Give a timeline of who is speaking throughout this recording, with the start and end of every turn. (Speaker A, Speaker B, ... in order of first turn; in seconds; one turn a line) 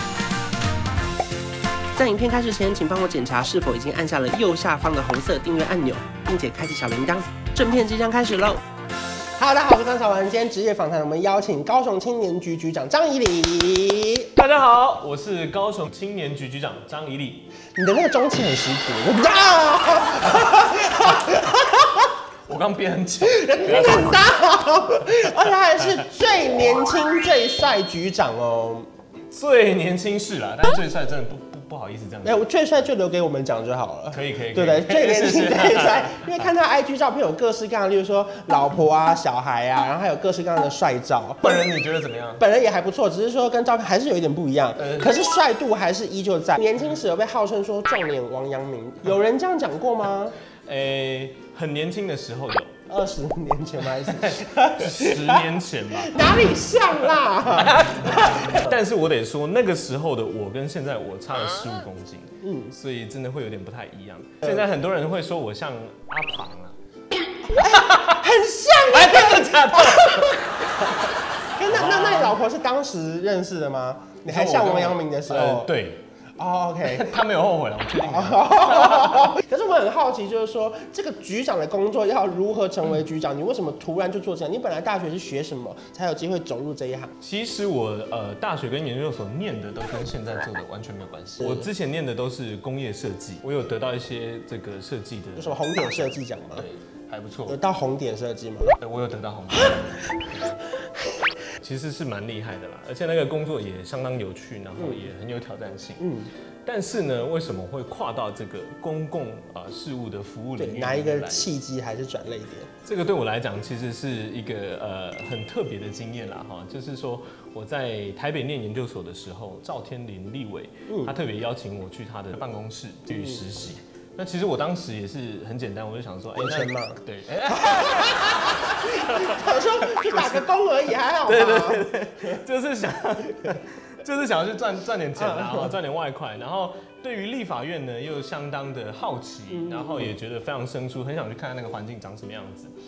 Speaker A: 1.9-8.6
Speaker A: 9.4-14.3
Speaker B: 14.4-17.5
Speaker A: 17.8-22.1
Speaker B: 22.5-24.3
Speaker A: 23.2-28.9
Speaker B: 29.3-32.4
Speaker A: 32.2-41.6
Speaker B: 34.1-36.4
Speaker B: 41.4-42.5
Speaker A: 42.4-50.4
Speaker B: 44.8-45.1
Speaker B: 50.6-52.8
Speaker A: 52.9-58.7
Speaker B: 54.0-56.2
Speaker B: 57.5-66.8
Speaker A: 62.4-62.7
Speaker A: 67.5-70.8
Speaker B: 67.6-68.2
Speaker B: 68.9-70.4
Speaker A: 71.5-75.7
Speaker B: 71.6-72.4
Speaker B: 74.3-76.0
Speaker A: 76.4-77.1
Speaker B: 76.8-79.3
Speaker A: 77.9-87.1
Speaker B: 87.2-97.6
Speaker A: 91.4-91.7
Speaker A: 95.4-96.7
Speaker A: 97.5-98.8
Speaker B: 98.8-100.6
Speaker B: 101.6-106.1
Speaker A: 106.0-106.3
Speaker B: 106.7-111.5
Speaker A: 110.6-112.7
Speaker B: 112.8-130.5
Speaker A: 120.9-121.2
Speaker A: 123.1-123.4
Speaker A: 126.4-132.4
Speaker B: 131.2-142.7
Speaker A: 135.2-135.8
Speaker A: 139.5-140.1